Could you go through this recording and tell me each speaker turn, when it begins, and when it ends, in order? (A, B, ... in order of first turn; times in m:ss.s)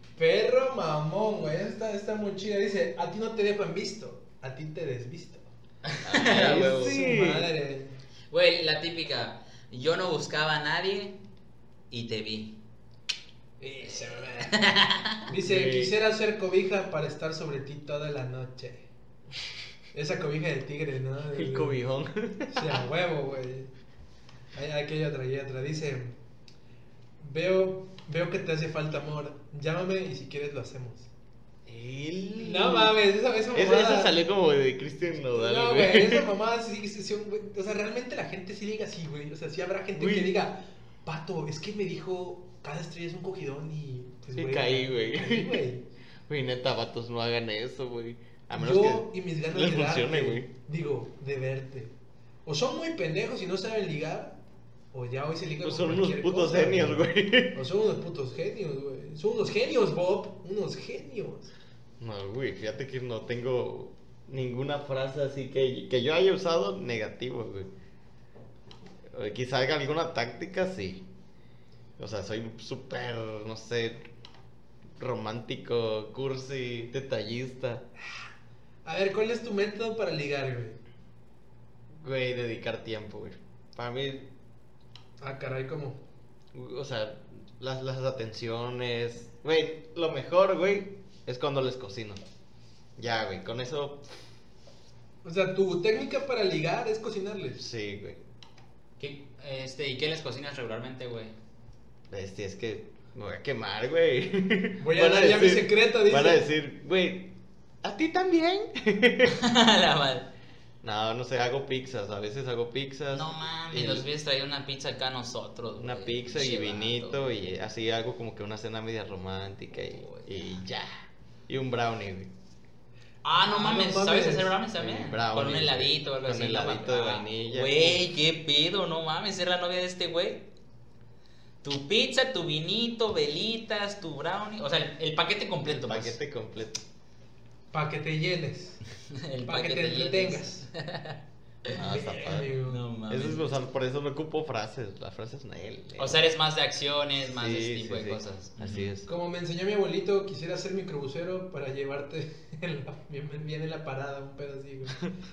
0:00.2-0:05.5 A
0:05.8-0:06.9 B
0:06.0-0:07.5 C
0:06.2-0:07.9 A
0:08.3-0:11.2 B
0:11.9-0:12.6 B
0:13.6-0:14.7 A
0:13.8-0:15.2 B
0:15.2-0:18.9 A
0:15.3-0:16.0 C
0:19.9-0:21.8 A
0:21.3-0:22.8 C
0:22.5-0:23.7 A
0:24.5-0:26.1 A
0:27.2-0:31.1 A
0:31.6-0:36.3 C
0:32.4-0:34.2 A
0:35.3-0:45.8 A
0:40.0-0:40.4 C
0:44.4-0:45.6 C
0:46.3-0:50.5 C
0:48.5-0:51.9 A
0:52.4-0:54.4 A
0:54.9-1:01.5 A
0:55.6-0:57.6 C
1:02.0-1:07.7 C
1:09.1-1:11.0 C
1:12.0-1:14.1 C
1:15.0-1:17.8 C
1:18.8-1:20.8 A
1:22.0-1:24.3 C
1:25.2-1:26.0 A
1:26.5-1:32.2 C
1:33.0-1:34.0 C
1:35.2-1:37.6 A
1:37.6-1:38.2 C
1:39.0-1:41.3 B
1:42.1-1:47.3 C
1:44.8-1:46.5 A
1:47.8-1:49.4 C
1:49.3-1:50.3 B
1:50.8-1:54.1 C
1:53.1-1:57.5 B
1:55.8-2:00.9 C
1:59.7-2:00.6 B
2:01.5-2:02.3 C
2:03.2-2:10.4 B
2:03.3-2:04.6 A
2:04.8-2:08.1 C
2:11.6-2:16.2 B
2:15.6-2:16.8 C
2:17.7-2:18.8 A
2:19.1-2:21.7 B
2:19.4-2:20.6 A
2:21.7-2:22.5 C
2:21.7-2:22.8 A
2:22.7-2:23.6 B
2:23.1-2:26.3 C
2:26.0-2:28.9 B
2:27.2-2:29.1 C
2:29.0-2:35.0 A